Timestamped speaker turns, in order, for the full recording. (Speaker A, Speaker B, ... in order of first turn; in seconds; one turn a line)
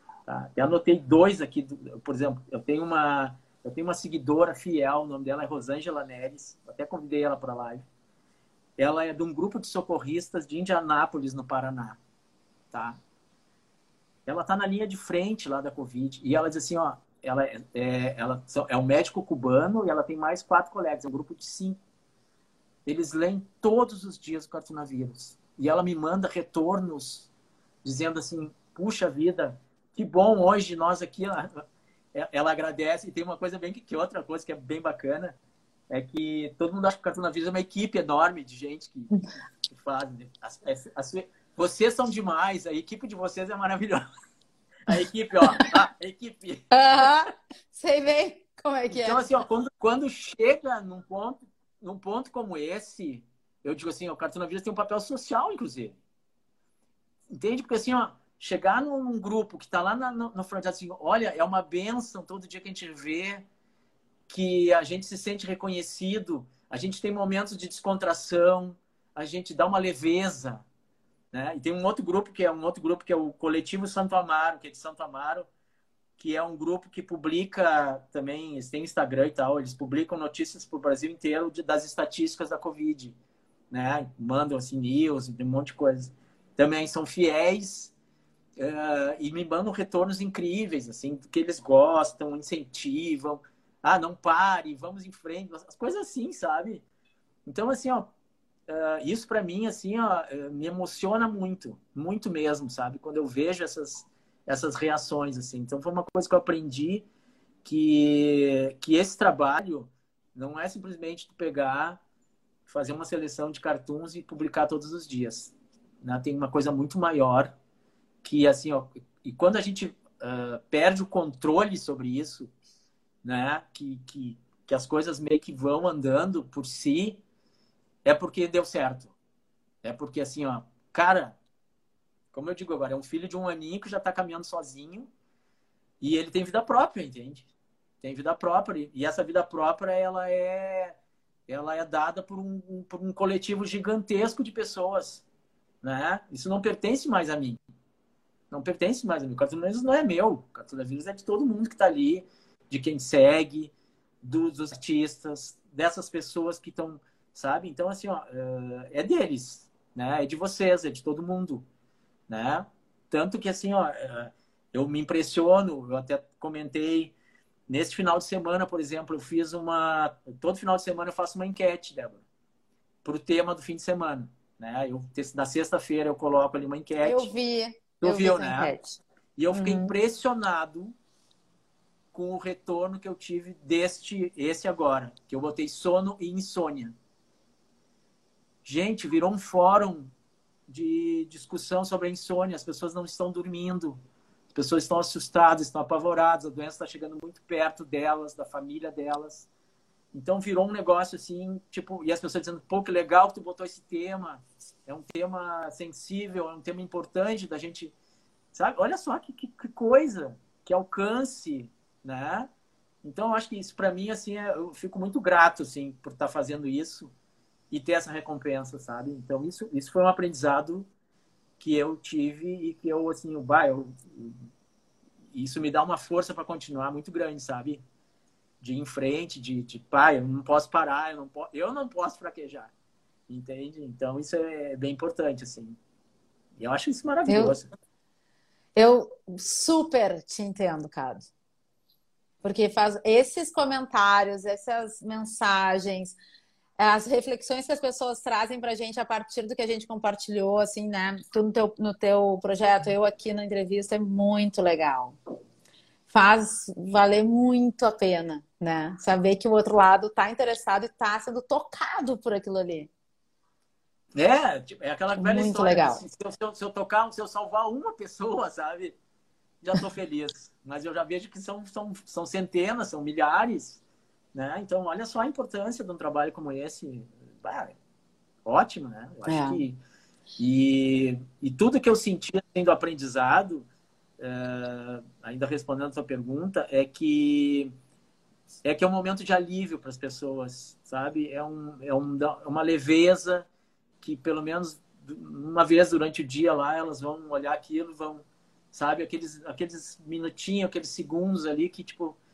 Speaker A: 0.3-7.8
Speaker A: 8.8-12.0
Speaker A: 12.7-13.0
Speaker A: 14.3-21.8
Speaker A: 22.9-27.3
Speaker A: 27.8-35.4
Speaker A: 35.9-39.1
Speaker A: 39.7-44.0
Speaker A: 44.9-47.1
Speaker B: 46.7-49.3
Speaker A: 48.9-56.0
Speaker A: 57.3-63.5
Speaker A: 64.3-70.6
Speaker A: 71.3-75.5
Speaker A: 76.2-83.2
Speaker A: 83.7-87.9
Speaker A: 88.6-96.8
Speaker A: 97.5-98.1
Speaker A: 98.7-107.1
Speaker A: 107.6-112.0
Speaker A: 112.7-117.5
Speaker A: 118.2-122.5
Speaker A: 123.2-127.2
Speaker A: 128.1-129.1
Speaker A: 129.8-131.4
Speaker A: 132.3-135.1
Speaker A: 136.0-137.5
Speaker A: 138.0-141.0
Speaker A: 141.5-145.2
Speaker A: 145.8-147.6
Speaker A: 148.5-161.7
Speaker A: 162.3-167.2
Speaker A: 167.7-172.2
Speaker A: 173.0-177.3
Speaker B: 177.0-179.0
Speaker A: 178.0-178.7
Speaker A: 179.4-181.0
Speaker B: 179.5-179.9
Speaker A: 182.1-186.9
Speaker A: 188.6-190.1
Speaker A: 190.7-194.0
Speaker A: 194.5-199.5
Speaker A: 200.1-207.9
Speaker A: 208.5-212.5
Speaker A: 213.0-217.1
Speaker A: 217.7-220.9
Speaker A: 221.6-224.5
Speaker A: 225.3-227.8
Speaker A: 228.6-232.7
Speaker A: 233.3-235.8
Speaker A: 236.6-237.7
Speaker B: 237.3-237.6
Speaker B: 238.8-241.3
Speaker B: 242.4-246.2
Speaker B: 246.8-255.2
Speaker B: 256.1-262.9
Speaker A: 264.1-269.0
Speaker B: 265.2-266.0
Speaker A: 269.6-273.8
Speaker A: 274.3-277.8
Speaker A: 278.4-279.8
Speaker B: 279.3-279.6
Speaker A: 280.4-283.7
Speaker A: 284.2-287.7
Speaker A: 288.6-293.5
Speaker A: 294.0-302.2